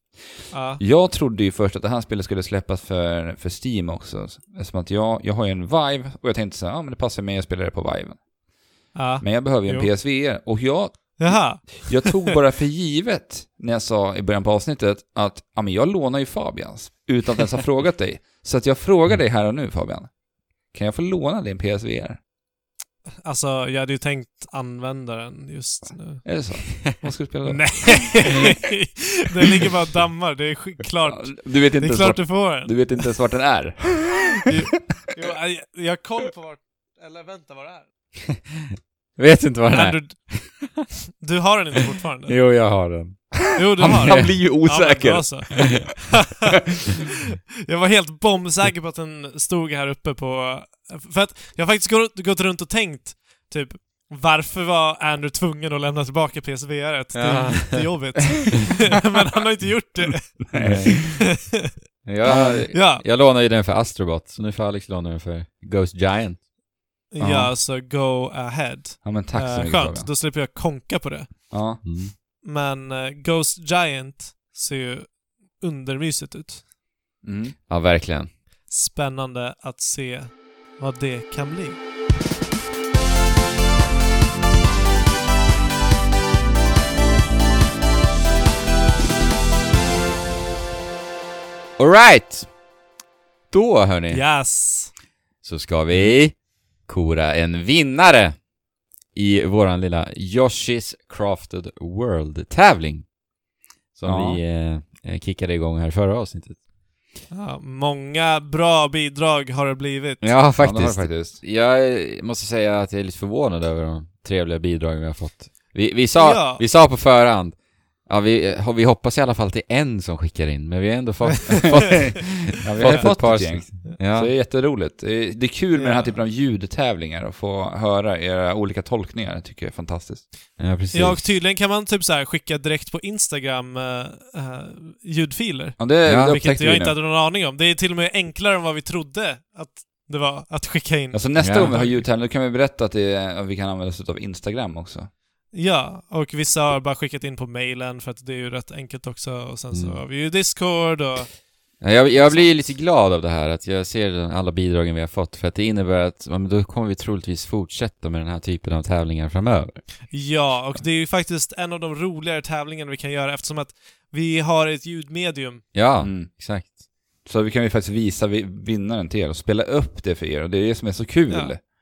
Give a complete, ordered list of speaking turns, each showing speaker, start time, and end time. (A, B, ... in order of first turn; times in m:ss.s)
0:00.5-0:00.8 A
0:00.8-0:08.2 B
0:08.9-0:09.9 A
0:09.2-0:20.1 B
0:11.2-0:12.3 A
0:20.7-0:22.2 B
0:23.2-0:26.7 A
0:26.2-0:28.2 B
0:27.4-0:32.9 A
0:31.1-0:34.1 B
0:34.5-0:37.9 A
0:39.2-0:40.7 C
0:39.7-0:42.4 A
0:42.3-0:44.4 C
0:43.5-0:46.5 A
0:43.8-0:45.6 B
0:47.6-1:01.7 A
0:57.1-0:58.2 C
1:00.5-1:01.0 B
1:00.6-1:01.3 C
1:02.0-1:06.4 C
1:02.2-1:03.0 A
1:07.1-1:11.5 A
1:07.2-1:07.5 B
1:09.0-1:10.1 B
1:11.5-1:11.8 B
1:11.8-1:12.1 C
1:12.4-1:16.6 A
1:17.2-1:17.6 B
1:17.7-1:18.3 C
1:18.7-1:21.8 A
1:31.8-1:32.5 C
1:33.5-1:34.2 C
1:34.1-1:34.9 A
1:35.4-1:38.4 C
1:35.9-1:36.2 B
1:39.1-1:43.1 C
1:43.9-1:46.6 C
1:44.0-1:44.4 B
1:47.3-1:50.4 A
1:50.2-2:04.3 C
1:50.6-1:51.4 B
1:56.2-1:56.6 A
2:01.8-2:10.2 B
2:01.8-2:02.2 A
2:02.8-2:04.0 A
2:05.7-2:06.1 A
2:10.6-2:11.4 C
2:10.9-2:22.0 A
2:15.8-2:17.0 B
2:16.0-2:16.4 C
2:21.1-2:25.1 B
2:21.4-2:21.8 C
2:25.5-2:31.3 A
2:29.7-2:30.0 C
2:31.8-2:39.8 C
2:32.1-2:32.5 A
2:40.1-2:45.7 A
2:45.7-2:46.7 C
2:46.0-2:46.3 B
2:47.2-2:51.6 B
2:51.3-2:51.5 A